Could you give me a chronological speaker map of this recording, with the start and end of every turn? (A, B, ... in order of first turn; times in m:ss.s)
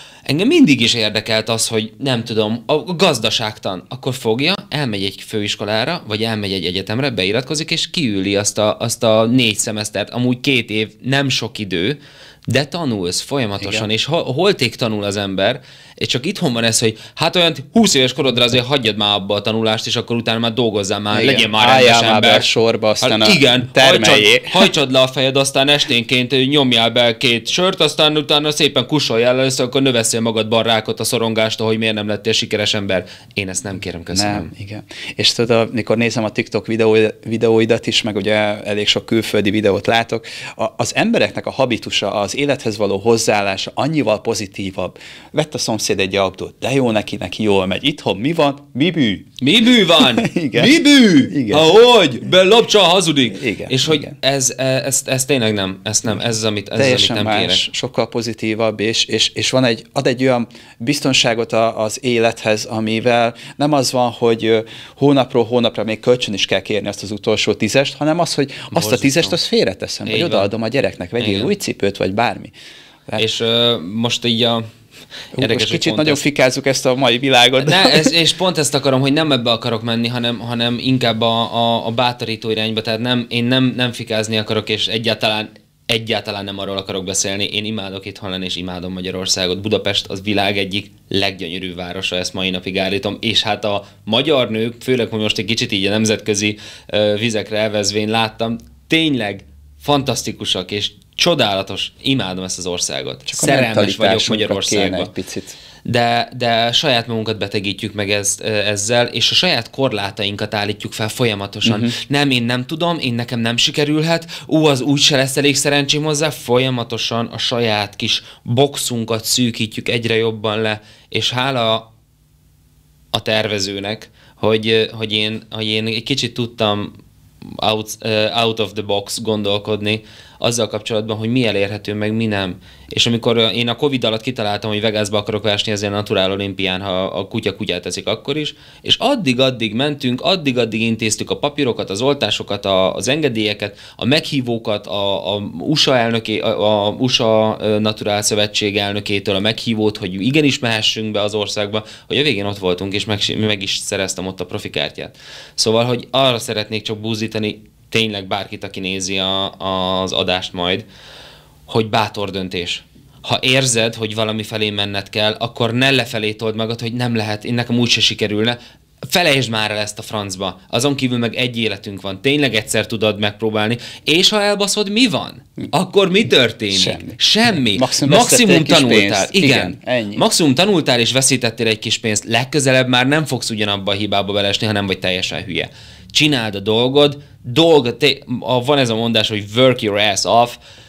0:00.2-0:22.5 A
0:13.6-0:13.8 B
0:21.1-0:24.7 B
0:23.0-0:34.5 A
0:34.1-0:49.3 B
0:49.4-0:57.6 A
0:50.0-0:51.7 B
0:53.3-0:54.1 B
0:56.8-1:12.5 B
1:08.7-1:09.4 A
1:10.0-1:10.5 A
1:11.2-1:11.5 A
1:13.2-1:14.6 A
1:15.3-1:18.1 B
1:15.4-1:16.2 A
1:17.6-1:45.1 A
1:43.3-1:45.6 B
1:45.8-2:01.9 A
1:51.6-1:51.9 B
2:03.1-2:40.8 A
2:41.7-3:10.6 A
2:56.7-3:00.2 B